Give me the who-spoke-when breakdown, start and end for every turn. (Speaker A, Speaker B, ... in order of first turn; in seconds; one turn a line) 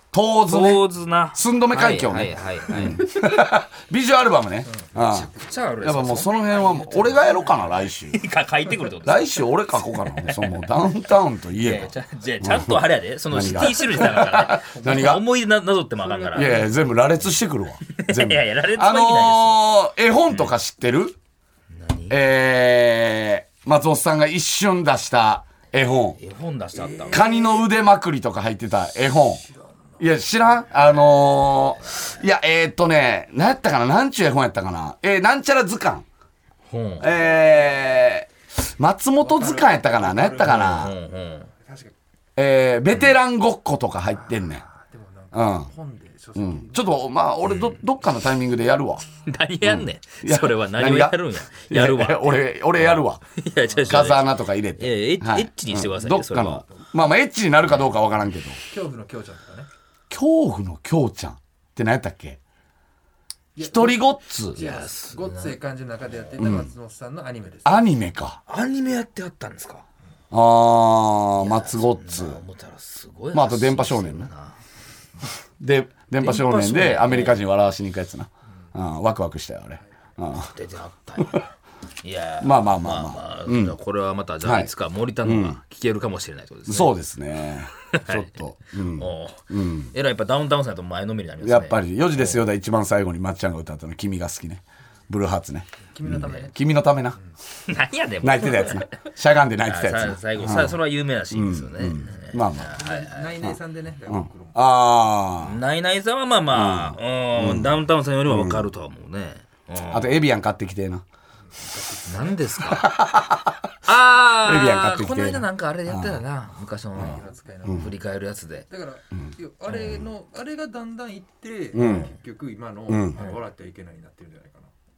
Speaker A: 0.1-5.3
Speaker B: 0.5-3.0
Speaker C: 2.7-3.0
Speaker B: 5.0-9.4
Speaker A: 5.8-8.2
Speaker A: 9.0-12.8
Speaker B: 10.0-10.7
Speaker B: 11.6-16.7
Speaker A: 13.3-15.2
Speaker C: 14.7-15.2
Speaker C: 16.0-16.9
Speaker A: 16.4-21.1
Speaker B: 17.9-19.6
Speaker B: 21.7-22.2
Speaker A: 22.1-26.2
Speaker B: 26.2-27.2
Speaker C: 26.7-27.6
Speaker A: 27.1-29.4
Speaker C: 29.5-30.1
Speaker A: 30.0-36.0
Speaker B: 36.7-37.1
Speaker A: 37.0-40.9
Speaker C: 39.2-40.9
Speaker B: 40.7-41.5
Speaker C: 41.5-41.9
Speaker A: 42.4-44.6
Speaker C: 44.2-47.0
Speaker A: 45.3-45.7
Speaker A: 46.4-49.0
Speaker B: 47.5-47.8
Speaker B: 49.2-56.6
Speaker A: 49.6-53.2
Speaker C: 53.6-54.1
Speaker A: 53.9-58.6
Speaker C: 58.7-59.7
Speaker A: 60.1-62.4
Speaker C: 63.6-67.9
Speaker A: 63.6-64.7
Speaker B: 64.5-65.6
Speaker A: 66.4-66.7
Speaker A: 67.7-68.4
Speaker B: 68.5-69.8
Speaker A: 70.3-72.4
Speaker B: 71.4-74.6
Speaker A: 73.3-74.3
Speaker A: 75.6-80.5
Speaker B: 76.2-77.4
Speaker B: 80.5-81.5
Speaker B: 82.0-86.9
Speaker A: 82.4-83.8
Speaker A: 84.4-84.7
Speaker A: 85.2-85.6
Speaker A: 86.7-89.9
Speaker B: 87.9-88.3
Speaker B: 88.9-92.4
Speaker A: 91.4-97.2
Speaker C: 95.9-96.6
Speaker B: 97.7-98.9
Speaker A: 98.2-100.8
Speaker B: 99.7-103.3
Speaker A: 101.3-102.8
Speaker C: 102.1-104.7
Speaker A: 104.1-105.6
Speaker B: 105.4-110.2
Speaker A: 106.5-108.7
Speaker A: 109.9-111.0
Speaker C: 111.6-112.5
Speaker B: 112.1-112.8
Speaker A: 112.7-113.7
Speaker B: 113.8-118.7
Speaker A: 114.4-116.2
Speaker C: 117.0-117.9
Speaker C: 118.7-124.7
Speaker B: 119.7-120.0
Speaker A: 121.7-122.1
Speaker A: 122.9-123.2